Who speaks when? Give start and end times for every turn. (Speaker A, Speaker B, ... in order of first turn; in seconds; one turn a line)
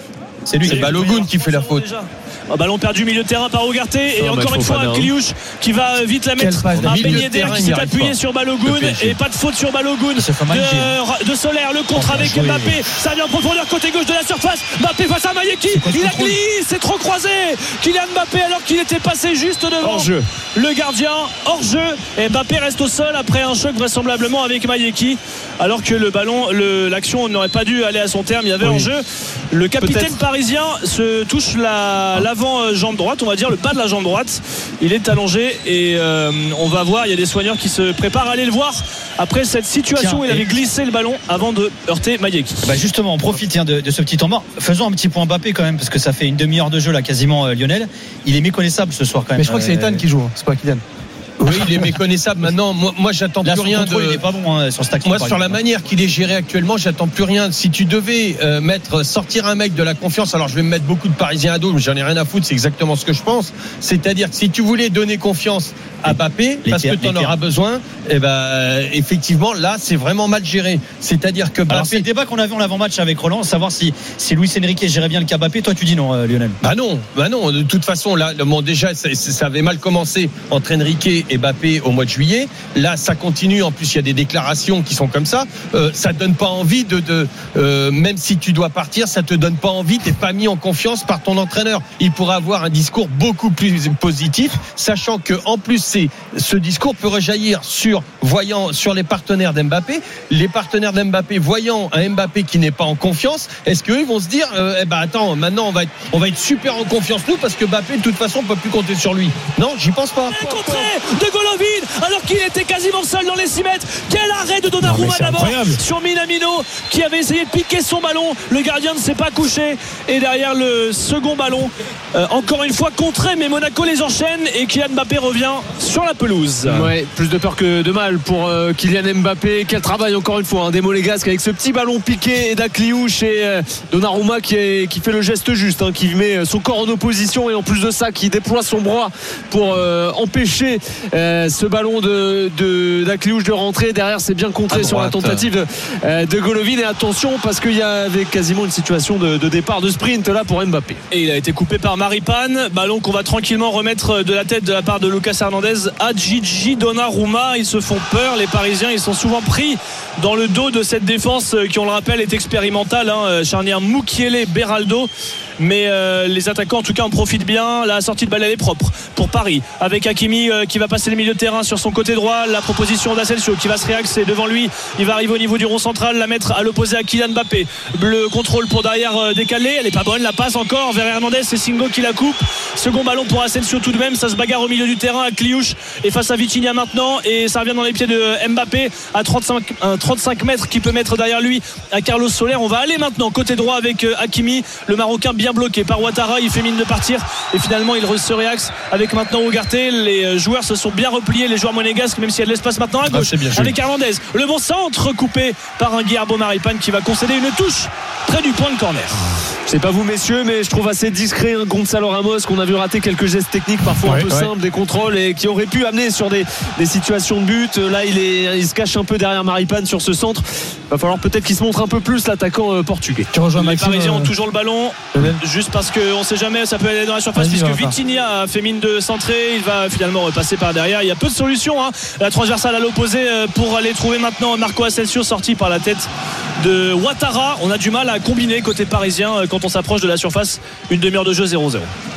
Speaker A: 0.5-1.0
Speaker B: 0.6-1.9
Speaker C: 0.6-42.7
Speaker D: 4.2-5.1
Speaker E: 6.4-7.6
Speaker B: 6.8-9.2
Speaker A: 10.2-11.0
Speaker A: 11.9-12.8
Speaker A: 15.7-16.4
Speaker D: 19.9-20.2
Speaker D: 29.8-30.1
Speaker A: 39.9-40.5
Speaker A: 42.6-50.0
Speaker E: 49.4-50.8
Speaker B: 51.4-54.2
Speaker A: 53.4-55.6
Speaker B: 55.0-72.1
Speaker A: 66.1-67.4
Speaker A: 71.7-76.6
Speaker B: 76.6-110.4
Speaker C: 110.3-126.9
Speaker E: 114.8-115.8
Speaker D: 126.7-151.0
Speaker B: 144.7-145.4
Speaker C: 151.1-209.2
Speaker B: 203.1-203.7
Speaker D: 209.7-223.3
Speaker E: 214.0-214.5
Speaker E: 223.3-224.3
Speaker C: 223.6-236.1
Speaker E: 225.1-225.4
Speaker E: 227.4-227.9
Speaker C: 236.6-241.9